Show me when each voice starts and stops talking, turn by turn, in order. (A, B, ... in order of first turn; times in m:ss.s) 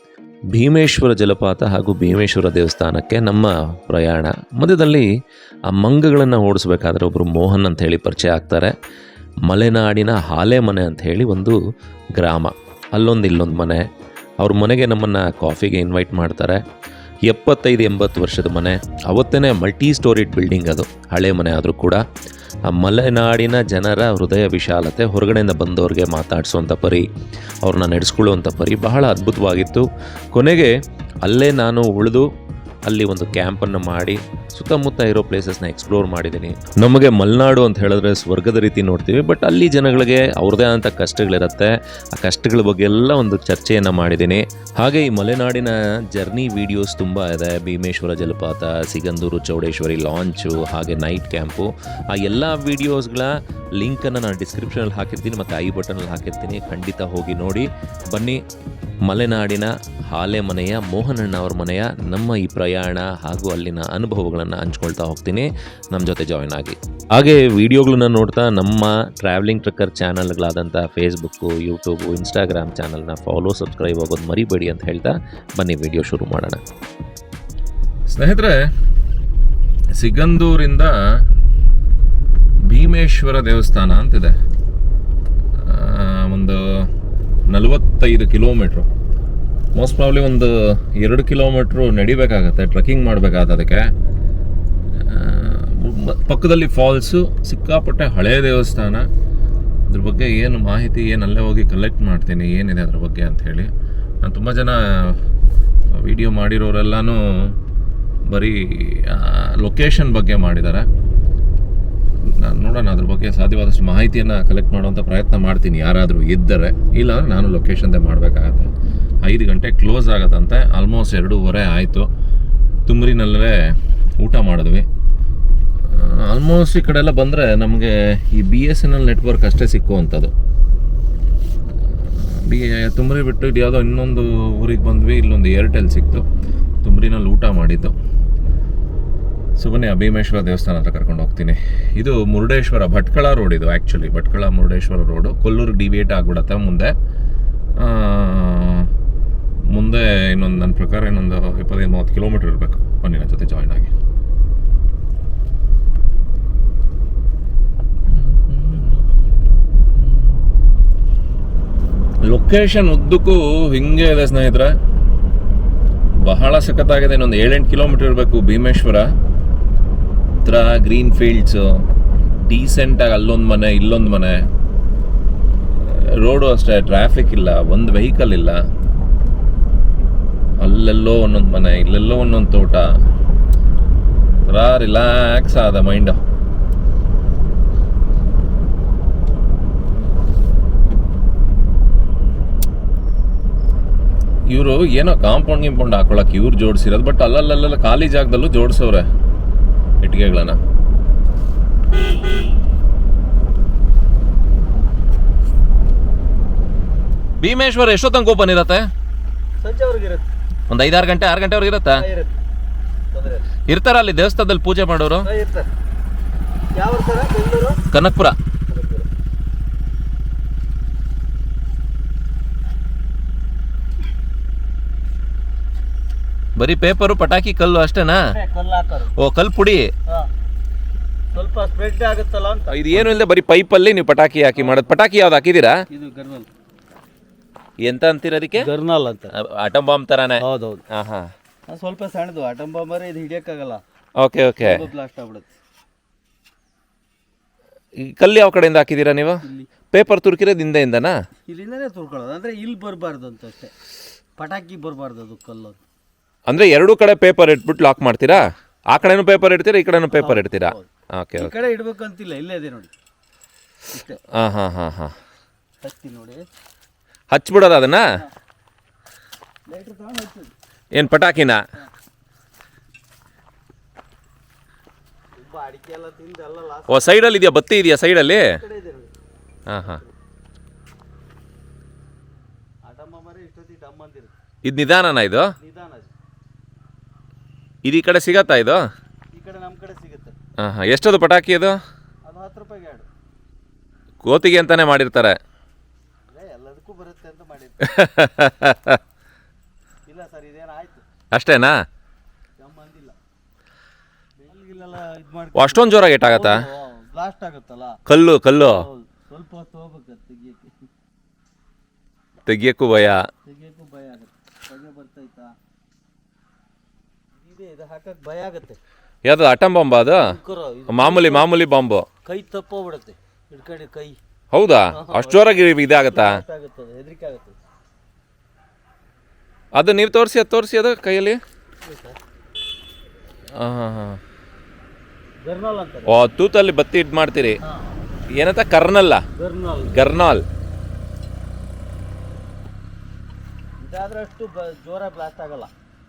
0:00.5-0:05.1 A
0:05.7-0:08.7 A
0:09.4-0:11.6 A
0:12.1-0:13.8 A
0:14.4-0:16.6 A
0:17.3-0:22.0 A
0:22.7-0:27.1 A
0:27.6-0:32.3 A
0:32.8-0:58.4 A
0:59.0-1:16.6 A
1:18.1-1:18.7 A
1:19.9-1:21.0 A
1:22.6-1:24.4 A
1:25.5-1:26.9 A
1:27.5-1:28.9 A
1:29.7-1:33.9 A
1:34.9-1:39.1 A
1:39.9-1:43.7 A
1:44.2-1:45.2 A
1:45.9-1:47.6 A
1:48.3-1:50.9 A
1:52.2-1:58.7 A
1:59.2-2:02.1 A
2:02.8-2:04.9 A
2:05.8-2:10.3 A
2:11.7-2:16.2 A
2:16.8-2:17.9 A
2:19.6-2:26.9 A
2:27.8-2:28.9 A
2:29.7-2:33.9 A
2:38.1-2:39.1 A
2:42.2-2:44.8 A
2:46.2-2:49.1 A
2:50.4-2:51.8 A
2:52.4-2:54.5 A
2:55.7-2:58.6 A
3:00.6-3:02.9 A
3:04.5-3:06.2 A
3:14.5-3:19.1 A
3:20.0-3:20.6 A
3:27.4-3:28.9 A
3:29.6-3:30.3 B
3:30.7-3:32.0 A
3:31.9-3:32.4 B
3:33.1-3:33.4 B
3:33.7-3:35.3 A
3:35.2-3:35.7 B
3:36.8-3:37.8 B
3:37.9-3:38.4 A
3:38.7-3:39.1 B
3:46.6-3:48.3 A
3:48.3-3:49.1 B
3:49.2-3:49.9 A
3:51.3-3:53.1 B
3:52.7-3:55.8 A
3:54.5-3:54.9 B
3:55.9-3:56.5 B
3:57.8-3:58.7 A
3:58.5-3:59.3 B
3:59.3-4:01.3 A
4:00.4-4:00.8 B
4:01.7-4:03.8 B
4:04.2-4:04.8 A
4:04.6-4:05.5 B
4:08.0-4:11.2 A
4:09.4-4:09.7 B
4:11.5-4:13.7 B
4:14.4-4:15.8 B
4:16.5-4:21.6 A
4:20.1-4:22.9 B
4:23.9-4:24.2 B
4:24.3-4:25.2 A
4:25.8-4:26.4 B
4:27.3-4:28.1 A
4:29.7-4:30.5 B
4:30.9-4:31.6 A
4:35.4-4:37.2 B
4:36.9-4:38.6 A
4:38.4-4:39.1 B
4:39.7-4:40.0 A
4:39.8-4:40.1 B
4:42.8-4:44.3 B
4:44.6-4:45.5 A
4:45.6-4:46.1 B
4:47.8-4:48.8 A
4:49.3-4:50.4 B
4:50.6-4:51.8 A
4:52.2-4:53.1 B
4:54.2-4:55.4 A
4:56.3-4:58.0 B
4:57.8-4:59.0 A
5:00.1-5:01.0 B
5:01.3-5:01.8 A
5:02.6-5:03.2 B
5:04.4-5:08.0 B
5:05.6-5:06.6 A
5:08.1-5:08.9 A
5:08.7-5:10.8 B
5:12.5-5:13.2 A
5:13.5-5:15.5 B
5:17.4-5:18.8 B
5:19.2-5:20.3 A
5:20.2-5:21.5 B
5:20.9-5:22.1 A
5:22.2-5:24.2 B
5:24.5-5:26.4 A
5:24.9-5:27.6 B
5:29.8-5:31.4 A
5:31.8-5:32.2 B
5:33.5-5:34.2 A
5:35.4-5:36.1 B
5:36.1-5:37.6 A
5:37.6-5:38.0 B
5:38.3-5:39.2 A
5:39.4-5:40.1 B
5:39.9-5:40.4 A
5:43.8-5:45.7 B